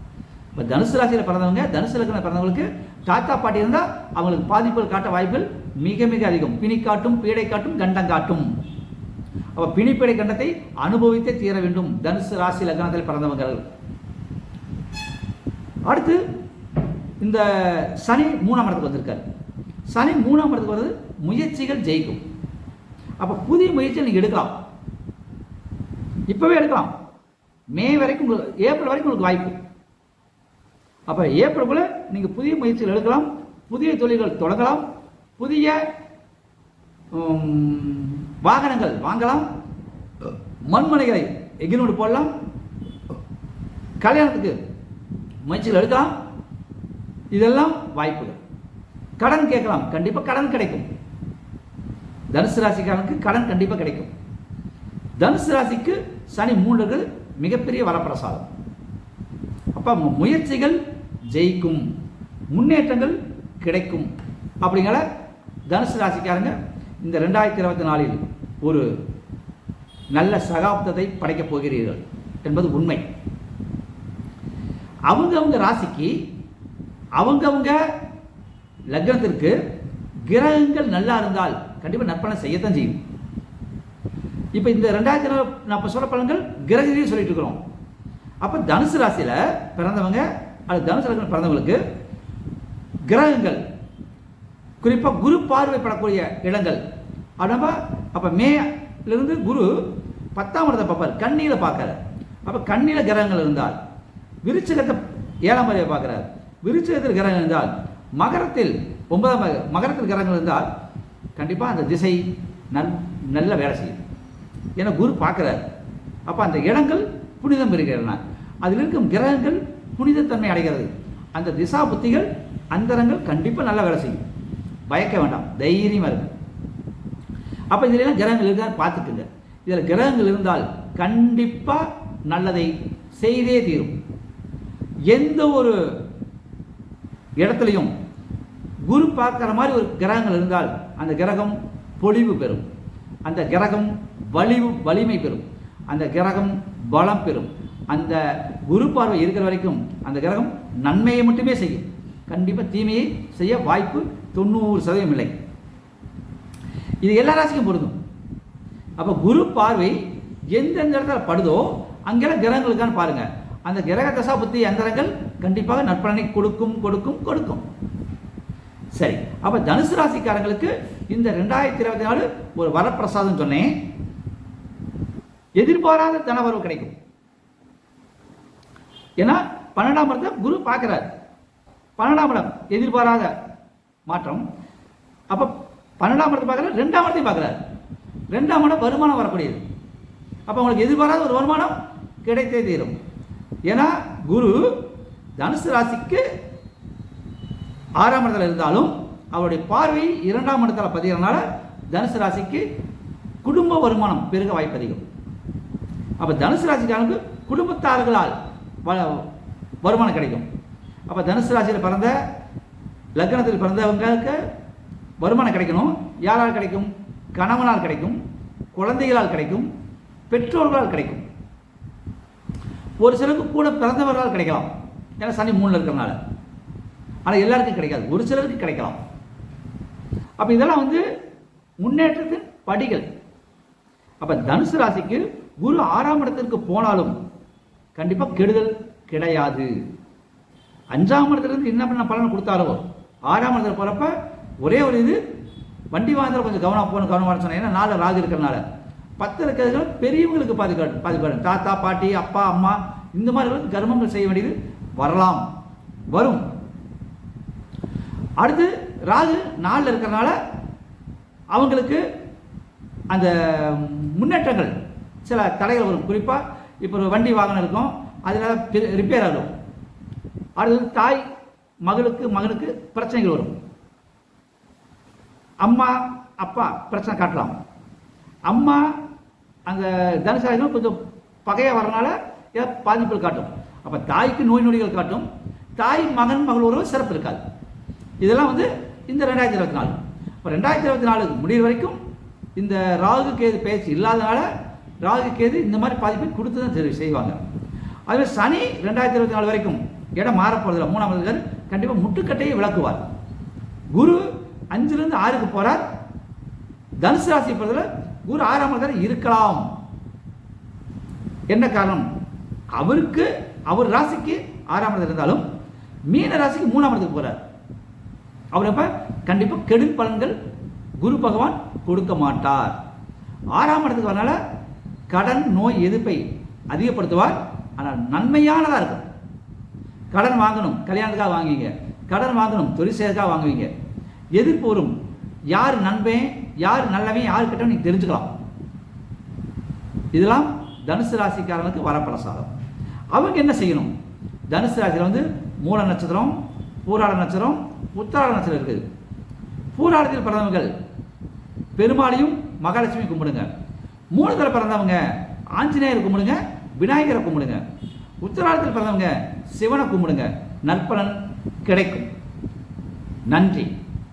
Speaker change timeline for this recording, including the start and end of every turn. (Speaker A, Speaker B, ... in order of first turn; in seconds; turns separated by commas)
Speaker A: 0.6-8.5, Speaker A: 9.6-13.7, Speaker A: 15.9-16.2, Speaker A: 17.2-19.2, Speaker A: 19.9-22.2, Speaker A: 23.2-24.6, Speaker A: 26.3-26.9, Speaker A: 27.7-29.6, Speaker A: 31.1-34.9, Speaker A: 35.4-35.8, Speaker A: 37.1-39.5, Speaker A: 40.7-42.3, Speaker A: 44.0-44.6, Speaker A: 45.5-46.1, Speaker A: 47.3-48.4, Speaker A: 49.2-50.9, Speaker A: 52.3-54.1, Speaker A: 55.2-58.5, Speaker A: 59.7-60.8, Speaker A: 61.3-61.9, Speaker A: 62.5-64.1, Speaker A: 64.6-65.0, Speaker A: 65.7-68.9, Speaker A: 70.1-73.0, Speaker A: 75.1-76.2, Speaker A: 77.2-77.8, Speaker A: 78.9-79.6, Speaker A: 80.3-83.0, Speaker A: 84.5-87.6, Speaker A: 88.4-91.8, Speaker A: 93.1-93.6, Speaker A: 94.8-96.8, Speaker A: 97.4-99.8, Speaker A: 100.3-103.8, Speaker A: 104.4-110.7, Speaker A: 111.4-114.0, Speaker A: 114.8-115.7, Speaker A: 116.3-124.2, Speaker A: 124.9-126.3, Speaker A: 127.7-134.0, Speaker A: 135.1-135.8, Speaker A: 137.4-137.9, Speaker A: 138.9-142.7, Speaker A: 143.2-155.4, Speaker A: 157.0-158.0, Speaker A: 159.0-160.0, Speaker A: 160.5-167.7, Speaker A: 169.0-173.7, Speaker A: 175.6-176.9, Speaker A: 179.2-181.1, Speaker A: 182.0-183.3, Speaker A: 184.1-184.4, Speaker A: 185.3-187.6, Speaker A: 188.3-189.6, Speaker A: 190.5-193.0, Speaker A: 193.7-194.8, Speaker A: 195.4-196.2, Speaker A: 198.0-202.7, Speaker A: 203.4-205.0, Speaker A: 206.2-209.3, Speaker A: 209.8-210.5, Speaker A: 211.1-212.1, Speaker A: 213.2-214.4, Speaker A: 215.2-218.2, Speaker A: 218.7-219.7, Speaker A: 220.3-221.2, Speaker A: 223.0-226.2, Speaker A: 227.2-229.0, Speaker A: 230.4-231.0, Speaker A: 231.8-233.1, Speaker A: 234.2-237.2, Speaker A: 237.9-239.7, Speaker A: 240.9-245.2, Speaker A: 245.9-248.6, Speaker A: 249.2-255.5, Speaker A: 256.1-256.5, Speaker A: 258.4-260.4, Speaker A: 261.5-262.0, Speaker A: 263.1-264.7, Speaker A: 265.2-269.5, Speaker A: 270.6-271.2, Speaker A: 271.9-273.6, Speaker A: 275.6-277.6, Speaker A: 278.5-278.9, Speaker A: 279.7-285.3, Speaker A: 285.8-287.4, Speaker A: 288.2-292.0, Speaker A: 292.6-294.5, Speaker A: 295.0-297.4, Speaker A: 298.1-303.1, Speaker A: 303.9-305.8, Speaker A: 307.0-309.7, Speaker A: 311.5-312.1, Speaker A: 312.8-315.4, Speaker A: 316.1-317.4, Speaker A: 318.5-320.4, Speaker A: 321.0-322.8, Speaker A: 323.5-324.4, Speaker A: 325.1-329.1, Speaker A: 330.1-333.7, Speaker A: 334.4-334.9, Speaker A: 335.5-338.3, Speaker A: 340.1-342.5, Speaker A: 343.1-343.9, Speaker A: 344.5-348.8, Speaker A: 349.8-350.7, Speaker A: 351.8-353.5, Speaker A: 354.1-355.0, Speaker A: 355.6-357.6, Speaker A: 358.2-362.1, Speaker A: 363.3-363.7